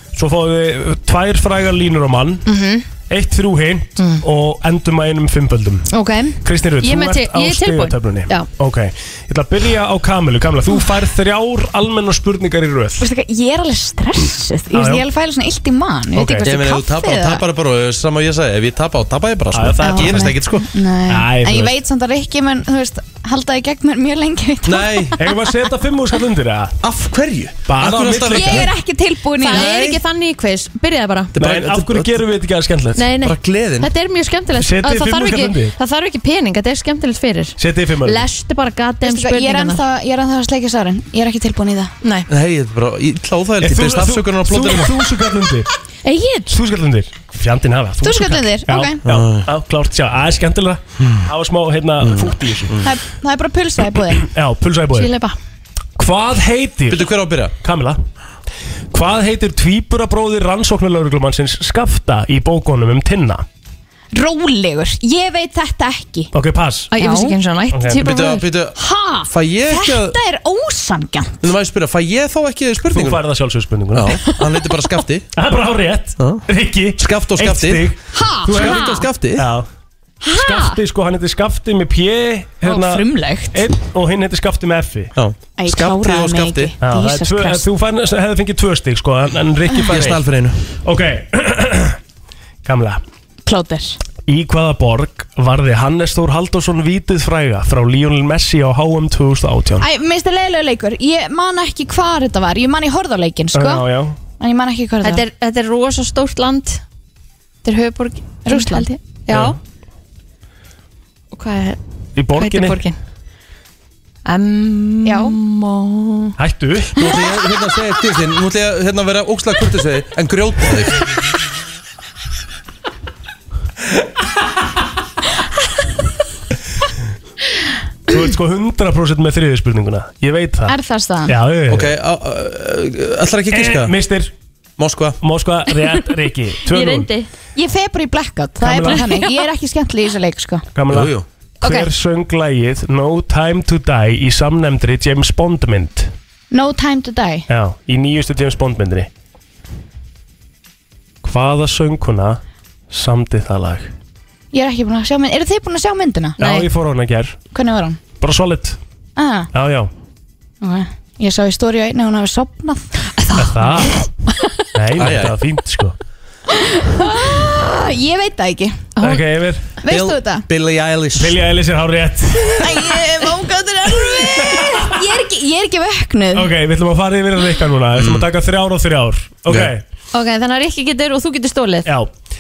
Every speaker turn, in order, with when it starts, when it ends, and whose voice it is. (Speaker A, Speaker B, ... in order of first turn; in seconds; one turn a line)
Speaker A: 0.1-2.5
Speaker B: 2.5-2.9
Speaker A: 3.1-5.9
Speaker B: 5.9-8.5
Speaker A: 6.4-13.1
Speaker C: 13.0-17.4
Speaker A: 14.7-15.1
Speaker A: 16.1-16.5
Speaker D: 16.4-20.7
Speaker A: 19.5-20.4
Speaker C: 19.8-25.2
Speaker A: 21.1-21.8
Speaker D: 24.6-25.2
Speaker A: 25.2-26.8
Speaker D: 26.8-28.7
Speaker A: 27.7-28.7
Speaker C: 28.3-29.7
Speaker B: 29.4-31.4
Speaker D: 29.5-30.0
Speaker D: 31.4-32.2
Speaker A: 31.4-33.0
Speaker B: 33.0-39.8
Speaker D: 33.2-33.9
Speaker A: 34.6-35.8
Speaker A: 37.6-38.3
Speaker C: 39.0-41.9
Speaker B: 42.0-42.3
Speaker D: 42.3-45.0
Speaker A: 43.6-45.7
Speaker B: 46.0-46.5
Speaker A: 46.5-52.8
Speaker C: 48.0-49.0
Speaker D: 49.1-49.5
Speaker D: 52.0-52.9
Speaker C: 52.8-54.3
Speaker A: 54.2-55.1
Speaker B: 55.0-55.4
Speaker A: 56.0-57.1
Speaker D: 56.9-57.5
Speaker A: 57.6-58.0
Speaker A: 58.9-63.5
Speaker C: 64.1-66.3
Speaker A: 66.3-66.9
Speaker B: 66.9-68.5
Speaker C: 67.0-67.4
Speaker A: 67.7-68.0
Speaker D: 68.0-70.2
Speaker C: 68.8-71.5
Speaker D: 71.4-73.2
Speaker A: 72.9-74.2
Speaker D: 73.9-75.3
Speaker A: 75.3-79.7
Speaker D: 76.2-76.4
Speaker D: 77.0-77.9
Speaker C: 78.1-79.0
Speaker D: 78.5-79.5
Speaker B: 80.2-80.8
Speaker A: 80.3-85.1
Speaker C: 82.7-83.7
Speaker D: 85.2-86.7
Speaker C: 85.6-87.7
Speaker A: 86.8-90.2
Speaker D: 89.9-90.6
Speaker A: 90.8-92.0
Speaker A: 92.7-93.0
Speaker C: 93.5-94.0
Speaker A: 94.2-99.9
Speaker C: 99.8-103.8
Speaker A: 103.5-104.2
Speaker C: 104.4-105.2
Speaker B: 105.0-106.8
Speaker B: 107.6-109.6
Speaker C: 108.5-108.9
Speaker A: 109.3-109.6
Speaker B: 111.3-111.8
Speaker A: 112.2-112.8
Speaker B: 112.4-113.0
Speaker B: 114.2-116.3
Speaker C: 115.0-115.4
Speaker A: 116.4-117.0
Speaker D: 117.0-121.0
Speaker A: 128.1-131.9
Speaker C: 130.7-131.3
Speaker D: 131.7-133.9
Speaker A: 133.5-134.3
Speaker D: 134.8-135.2
Speaker A: 135.2-137.1
Speaker B: 136.7-137.3
Speaker C: 137.6-140.7
Speaker A: 138.6-139.0
Speaker A: 140.8-146.1
Speaker D: 140.9-141.2
Speaker C: 146.5-147.4
Speaker A: 147.5-149.1
Speaker A: 151.2-152.4
Speaker A: 152.9-153.9
Speaker C: 154.5-156.4
Speaker A: 156.4-157.4
Speaker B: 156.4-156.7
Speaker C: 157.5-158.0
Speaker A: 158.2-158.8
Speaker C: 159.2-159.5
Speaker A: 159.5-159.9
Speaker C: 160.6-162.9
Speaker B: 163.2-163.9
Speaker A: 163.4-164.0
Speaker A: 164.7-165.9
Speaker D: 165.0-165.4
Speaker C: 166.5-168.9
Speaker B: 169.0-169.2
Speaker A: 169.0-169.7
Speaker C: 169.8-170.4
Speaker D: 169.9-171.4
Speaker A: 171.2-173.0
Speaker C: 172.6-176.5
Speaker A: 174.3-175.0
Speaker A: 176.3-179.8
Speaker D: 178.0-178.3
Speaker D: 179.5-179.7
Speaker B: 180.1-181.9